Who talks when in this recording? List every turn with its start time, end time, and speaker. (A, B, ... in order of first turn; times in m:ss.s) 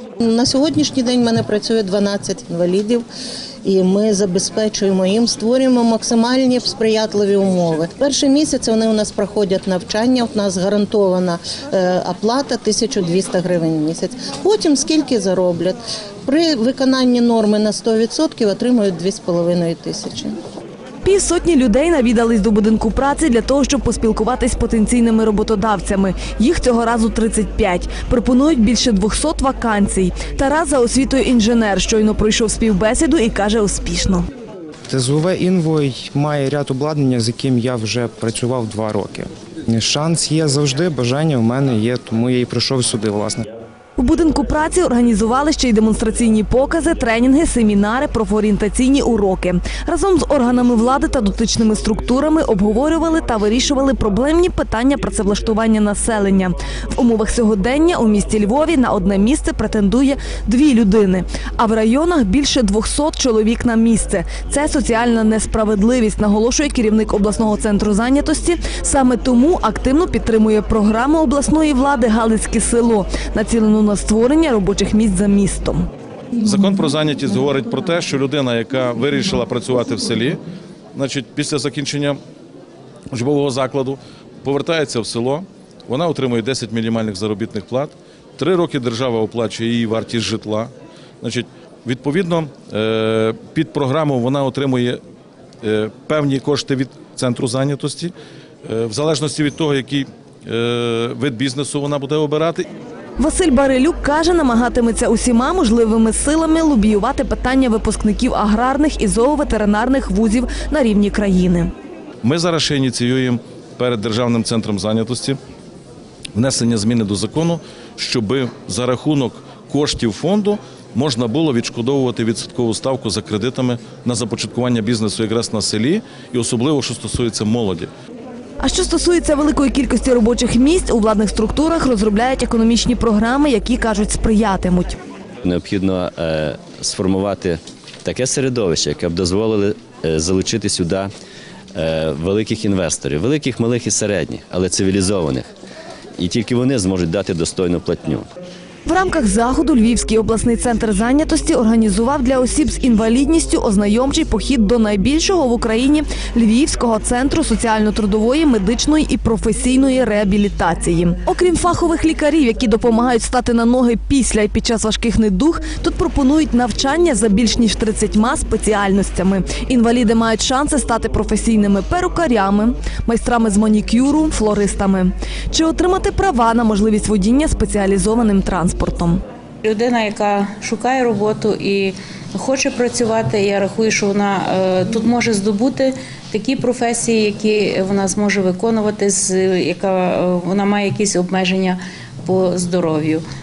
0:00.2-0:03.0 A
0:03.6-0:20.4 A
0:21.0-0:34.3 B
0:34.9-0:43.5 C
0:44.0-1:15.9 B
1:16.4-1:20.4 D
1:21.0-1:22.2 D
1:23.1-1:30.7 D
1:31.2-1:35.0 D
1:35.6-1:38.1 D
1:38.7-1:42.6 D
1:43.2-1:51.7 B
1:52.2-1:55.4 D
1:56.4-2:07.9 D
2:08.6-2:15.0 B
2:15.4-2:21.1 E
2:21.8-2:25.5 E
2:26.2-2:28.2 E
2:28.9-2:59.2 B
2:59.6-3:13.2 F